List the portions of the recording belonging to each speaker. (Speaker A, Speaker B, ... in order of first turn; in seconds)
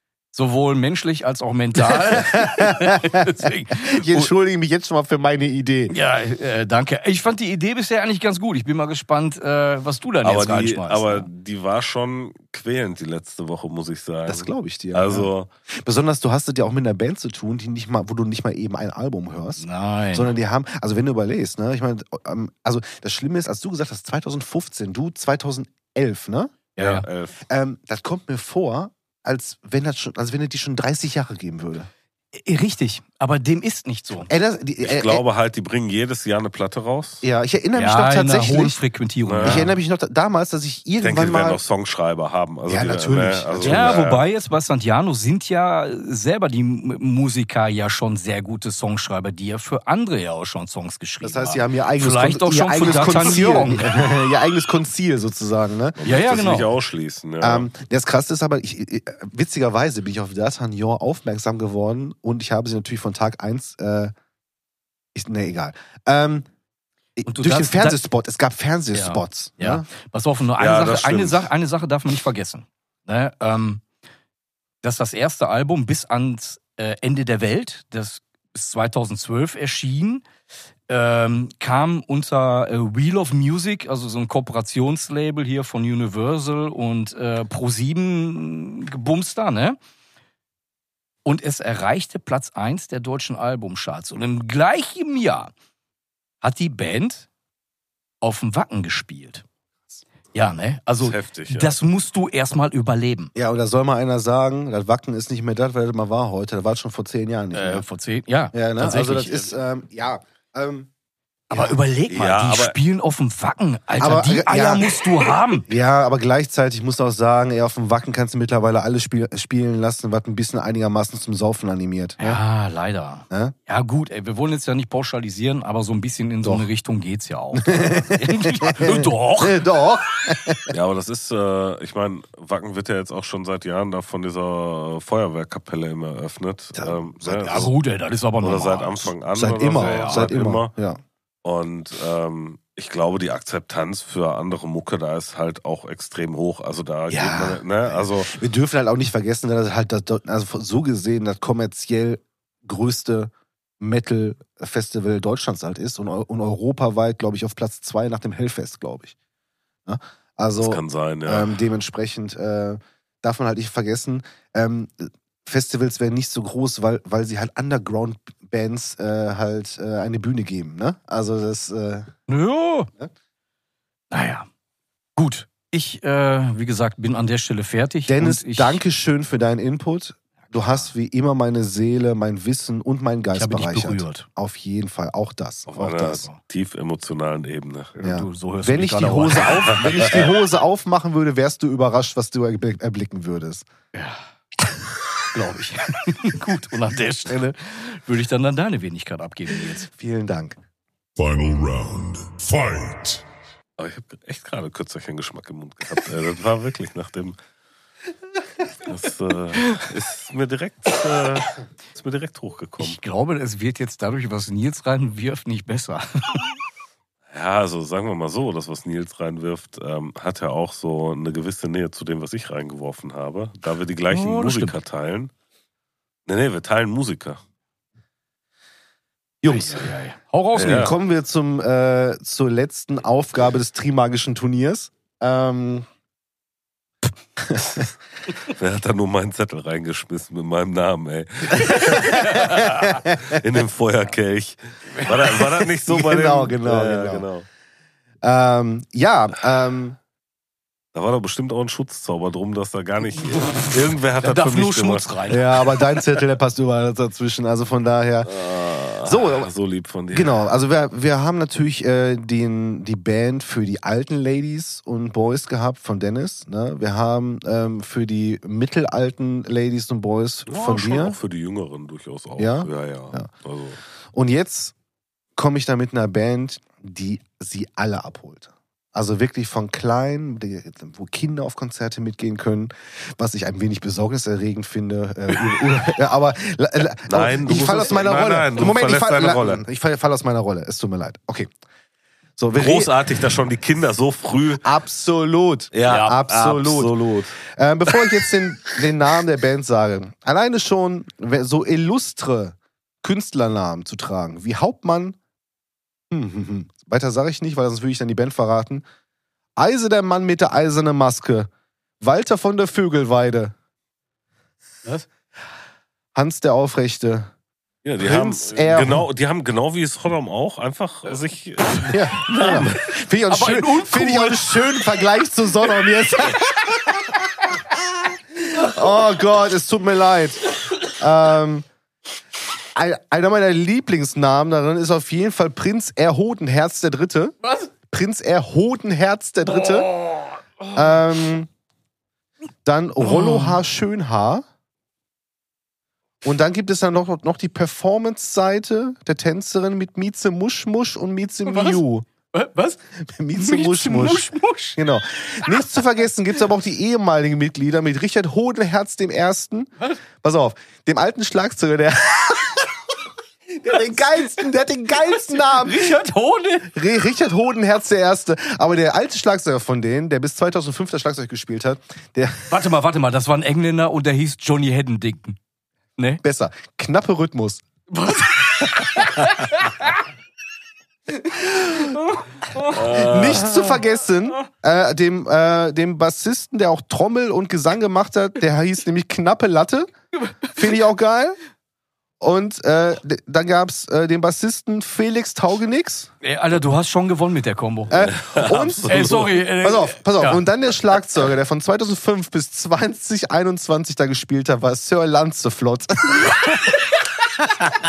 Speaker A: 0.3-4.3, 5.9-11.3, 19.6-20.3, 26.8-27.1, 32.3-34.3, 37.7-39.7, 43.6-54.1, 56.0-56.7, 67.2-68.0, 68.9-73.8, 74.8-80.2, 80.9-89.8, 91.2-95.5, 96.4-97.3, 98.2-99.4, 100.3-103.3, 107.5-109.5, 111.5-115.7, 122.2-129.6, 137.4-139.1, 139.7-140.3, 172.3-172.9, 174.1-174.5, 175.2-178.8, 183.3-184.3, 188.0-190.2, 193.9-194.2, 195.3-199.9, 212.8-216.5, 224.1-224.7, 229.4-230.9, 254.2-255.4, 322.2-322.7, 323.3-324.6, 339.6-340.4, 343.0-343.6, 351.4-352.8, 353.3-354.8, 365.4-366.7, 372.5-375.4, 377.9-379.7, 381.8-382.0, 382.6-383.0, 396.2-398.0, 398.9-400.4
Speaker B: 1.9-5.9, 14.3-26.5, 27.5-31.9, 34.3-35.2, 37.2-38.8, 39.4-41.6, 42.7-44.0, 51.2-56.0, 57.4-64.1, 65.1-66.5, 67.2-69.8, 103.3-107.8, 108.5-110.9, 111.5-111.8, 114.0-122.4, 123.3-123.5, 126.4-126.7, 127.5-130.7, 136.8-137.7, 139.3-141.0, 147.1-159.1, 159.8-172.1, 178.1-186.3, 188.0-193.7, 199.9-200.6, 229.4-229.9, 230.6-235.9, 237.4-237.9, 241.5-243.4, 245.8-247.2, 248.2-250.0, 255.3-258.4, 259.0-259.5, 260.1-271.2, 272.4-273.3, 274.1-274.7, 275.4-291.5, 292.4-292.9, 294.6-305.1, 306.1-308.8, 309.6-311.5, 312.0-313.5, 316.1-317.3, 318.0-319.0, 321.9-327.2, 328.0-331.7, 332.7-339.9, 340.7-341.5, 342.6-344.4, 346.2-352.1, 353.0-362.7, 363.5-365.9, 366.7-372.6, 376.2-377.6, 382.7-389.9, 390.5-391.4, 392.2-396.1, 397.9-406.5
Speaker C: 10.2-15.5, 26.8-27.4, 34.8-37.2, 39.2-39.6, 41.0-44.2, 56.0-57.7, 70.6-71.5, 101.0-101.8, 112.1-112.8, 130.7-137.7, 138.4-140.7, 141.4-148.3, 160.6-161.6, 185.7-187.9, 203.8-207.4, 208.8-213.0, 217.3-225.3, 226.2-227.4, 230.5-230.9, 238.5-247.4, 250.9-255.1, 258.2-260.3, 270.5-273.8, 287.0-289.6, 292.5-294.6, 295.7-297.4, 317.8-322.8, 382.8-383.5, 398.1-399.3
Speaker D: 201.2-203.2